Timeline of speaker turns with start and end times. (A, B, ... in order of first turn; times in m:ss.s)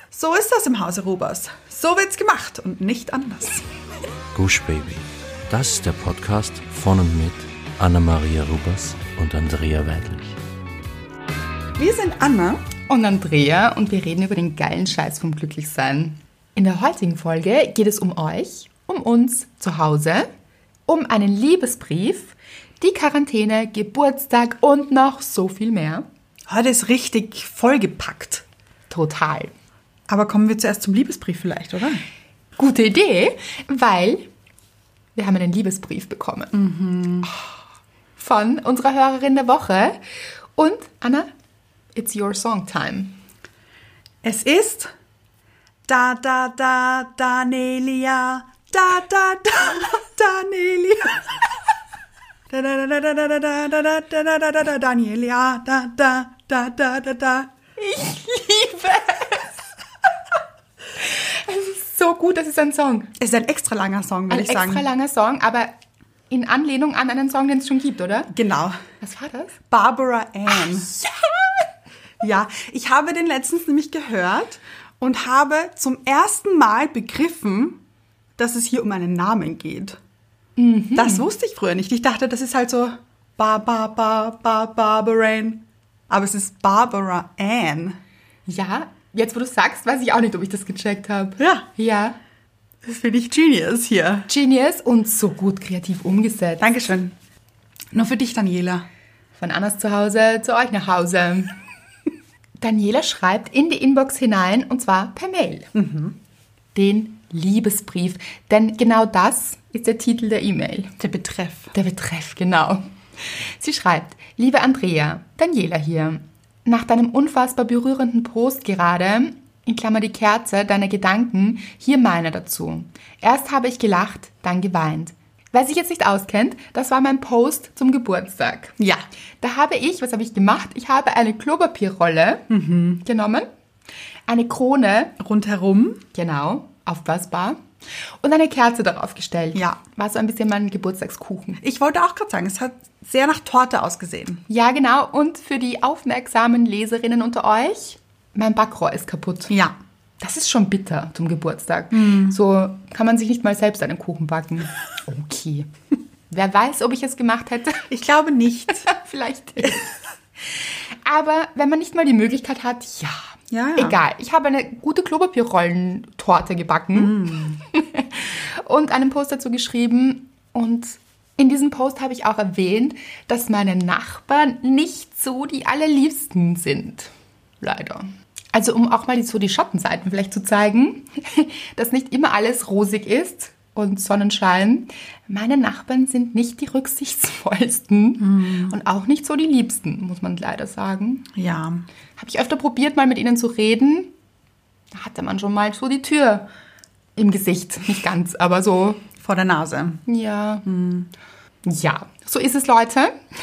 0:00.1-0:03.7 A
0:04.3-0:10.4 B
0:11.8-0:12.6 A
0:12.9-0:20.3 C
0:20.9-0:26.0 C
0:26.5-0:28.4 A
0:28.9-0:29.5 C
0:30.1-0:32.0 A
0:32.6-0:34.3 C
0:35.2-0:36.5 C
0:36.5-0:37.3 A
0:38.2-0:40.0 C
0:40.6-0:41.3 C
0:42.0-0:43.2 C
0:44.2-0:44.9 A
0:45.9-0:51.4 A
0:52.5-0:57.5 A
0:57.8-0:59.5 C
1:01.0-1:03.1 C
1:03.2-1:04.9 A
1:04.3-1:05.7 C
1:06.3-1:08.3 C
1:08.3-1:08.8 A
1:09.0-1:09.6 C
1:09.7-1:11.0 A
1:10.6-1:11.6 C
1:12.2-1:17.8 A
1:18.4-1:20.0 A
1:20.6-1:21.3 C
1:21.0-1:28.0 A
1:28.5-1:32.2 C
1:31.4-1:31.7 A
1:32.8-1:34.3 A
1:34.3-1:36.6 C
1:36.6-1:37.1 A
1:37.9-1:38.9 A
1:39.4-1:41.6 C
1:42.6-1:45.7 C
1:45.7-1:46.2 A
1:46.8-1:51.0 C
1:51.0-1:51.7 A
1:51.7-2:08.8 C
2:09.4-2:12.5 C
2:12.5-2:13.0 A
2:13.0-2:13.5 C
2:14.3-2:15.2 C
2:15.2-2:16.0 A
2:16.1-2:17.6 C
2:18.2-2:21.6 C
2:21.6-2:24.4 A
2:24.5-2:29.5 C
2:29.5-2:29.8 A
2:30.2-2:35.7 C
2:31.9-2:32.4 A
2:36.3-2:37.9 C
2:37.9-2:38.9 A
2:38.7-2:40.0 C
2:40.5-2:43.2 C
2:43.5-2:44.0 A
2:43.8-3:11.3 C
2:47.0-2:47.6 A
3:08.2-3:08.7 A
3:11.4-3:11.8 A
3:12.2-3:14.1 C
3:14.9-3:16.5 C
3:17.2-3:19.1 C
3:19.2-3:20.0 A
3:20.1-3:20.7 C
3:20.7-3:21.1 A
3:21.6-3:23.2 C